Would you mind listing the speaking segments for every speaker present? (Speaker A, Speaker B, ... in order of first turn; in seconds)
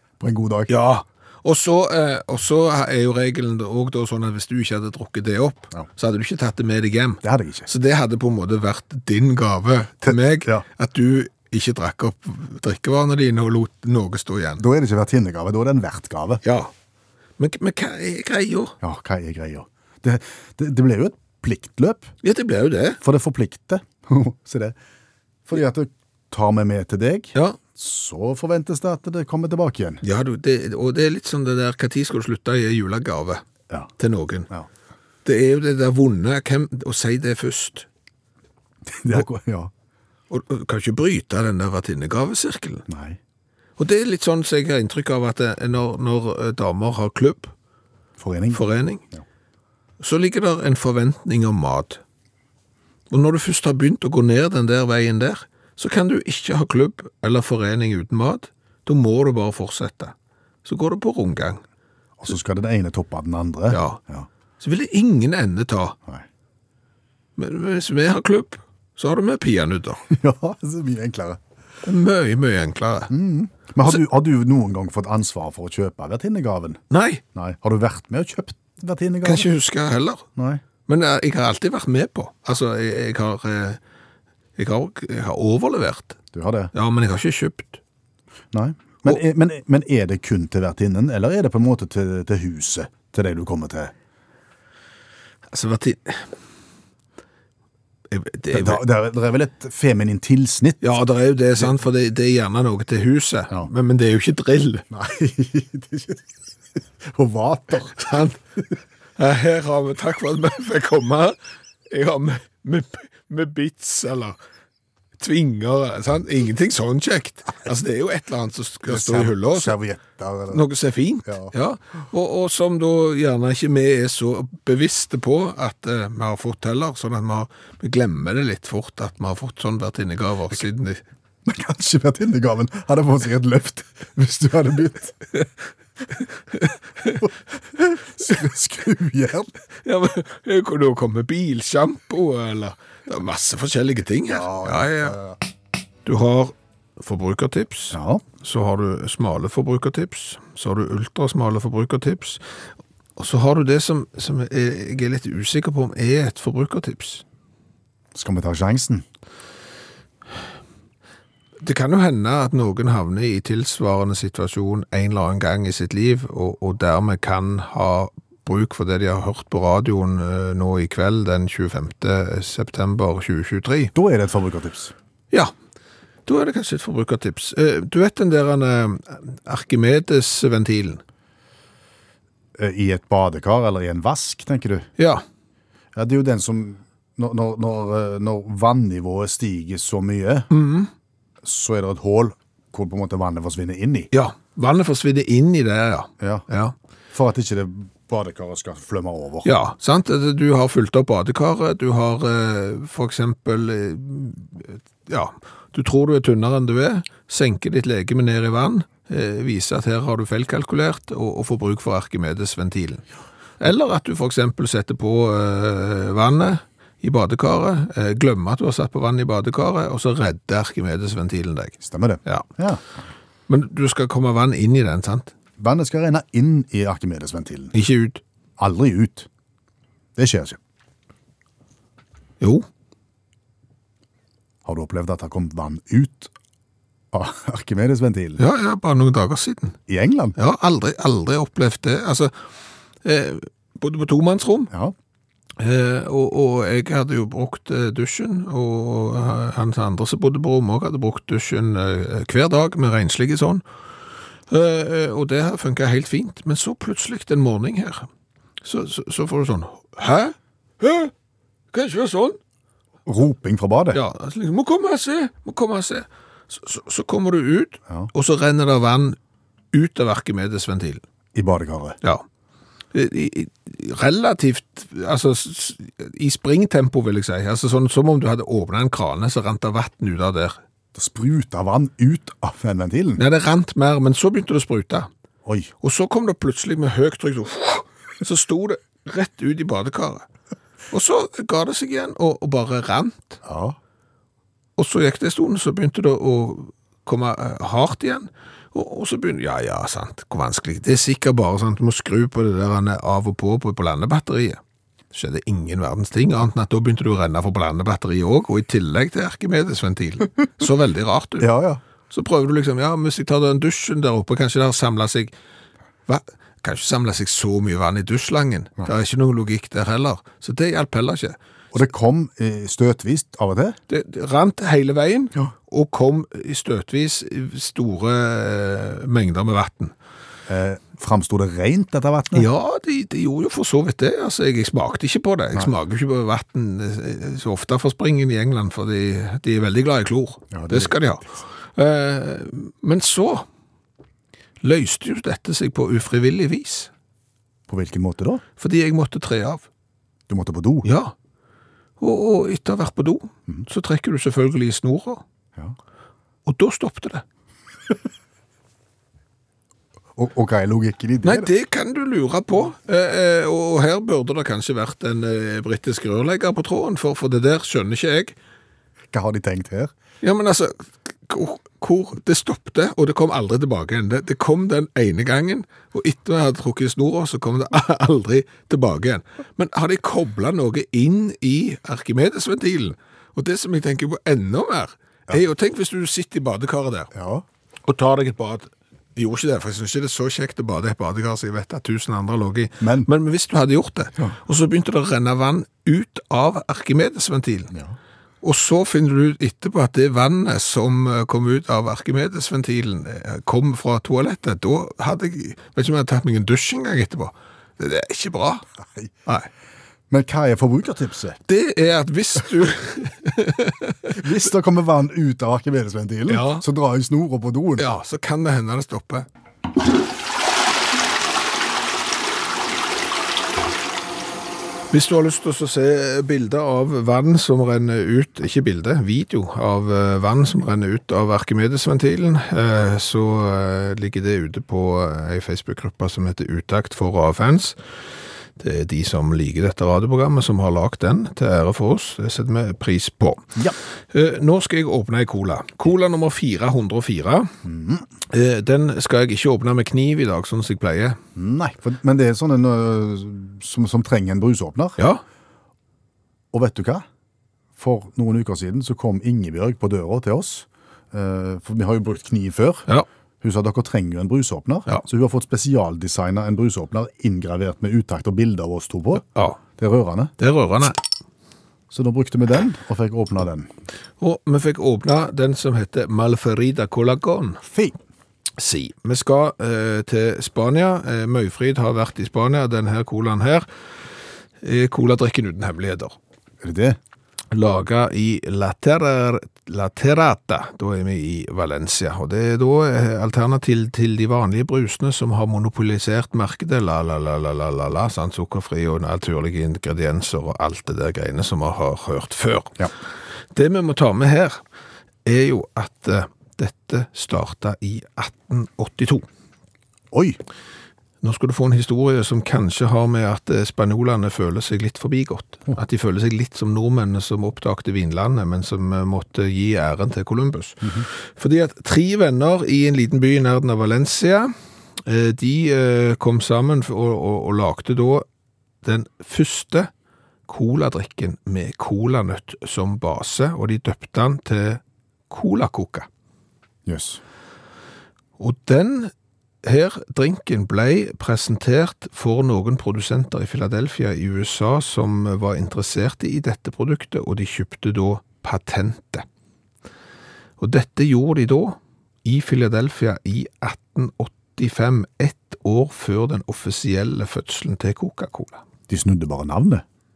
Speaker A: 0.2-0.8, 7.2-7.7, 10.0-10.6, 14.6-16.4, 18.8-22.1, 23.0-24.8, 25.4-30.0, 38.9-39.7, 42.9-43.2, 48.2-48.6, 62.2-64.3, 70.1-71.4, 73.1-76.8, 77.3-79.5, 80.3-80.6, 86.3-86.7, 88.5-93.9, 98.5-100.8, 104.9-108.1, 118.9-120.6, 121.2-121.5, 131.4-135.4, 137.8-139.5, 144.3-145.3, 147.9-148.2, 158.1-159.0, 173.9-174.9, 182.6-184.9, 185.9-190.5, 191.4-194.1, 196.2-196.4, 197.1-199.5, 221.8-222.8, 225.6-227.7, 228.6-229.3, 230.2-230.6, 234.6-236.3, 237.1-238.4, 239.9-240.3, 263.1-264.0, 271.3-272.0, 280.9-283.2, 285.4-285.7, 293.4-293.8, 311.4-311.8, 321.7-323.8, 330.5-332.5, 340.5-340.9, 347.7-348.4, 350.3-350.9, 360.1-361.5, 369.1-369.9, 387.1-387.4, 392.8-393.1, 408.8-409.1, 410.1-411.4, 414.1-417.9, 447.6-448.1, 451.4-455.0, 456.5-457.1, 457.8-462.9, 463.4-469.2, 469.8-470.3, 471.9-473.7, 477.6-478.0, 486.6-487.0, 510.1-510.4, 536.9-537.2, 558.9-559.8
Speaker B: 0.7-14.6, 16.4-16.7, 17.4-18.7, 22.2-23.0, 30.0-33.4, 34.0-34.5, 35.2-37.9, 40.3-42.8, 43.8-47.5, 48.5-49.0, 50.0-52.0, 53.1-60.1, 60.6-61.6, 63.7-64.0, 64.6-66.0, 67.4-70.0, 71.8-73.1, 76.9-77.2, 79.2-80.2, 80.9-83.8, 84.6-86.2, 86.7-87.8, 95.5-96.3, 98.1-98.8, 100.8-104.8, 108.0-108.4, 109.2-111.3, 111.9-114.4, 115.2-119.7, 120.5-131.0, 136.5-137.3, 139.8-145.2, 146.0-152.6, 153.2-157.2, 161.6-173.9, 176.2-181.0, 185.0-185.2, 190.5-190.9, 194.1-196.7, 199.4-213.0, 213.6-222.4, 223.5-225.3, 227.7-228.2, 232.4-232.7, 238.4-239.8, 240.3-242.3, 243.0-244.7, 245.6-253.6, 254.5-258.1, 258.6-261.1, 261.7-262.4, 263.9-269.2, 269.7-271.0, 272.9-280.6, 283.2-285.1, 285.8-290.3, 290.9-293.4, 294.8-304.6, 305.1-311.5, 312.1-315.3, 316.1-321.4, 323.9-329.9, 332.3-343.4, 344.6-346.9, 348.6-349.6, 350.8-351.1, 352.0-355.2, 356.4-357.2, 361.2-368.4, 370.2-387.1, 387.9-397.7, 398.4-408.6, 411.5-414.4, 416.3-416.6, 417.8-419.3, 424.9-447.5, 448.3-451.2, 469.3-469.6, 470.4-471.0, 474.2-477.6, 478.6-486.1, 487.5-502.9, 503.5-504.6, 505.2-509.2, 511.2-528.2, 528.8-529.9, 530.5-536.1, 538.4-539.1, 539.6-549.2, 550.6-558.6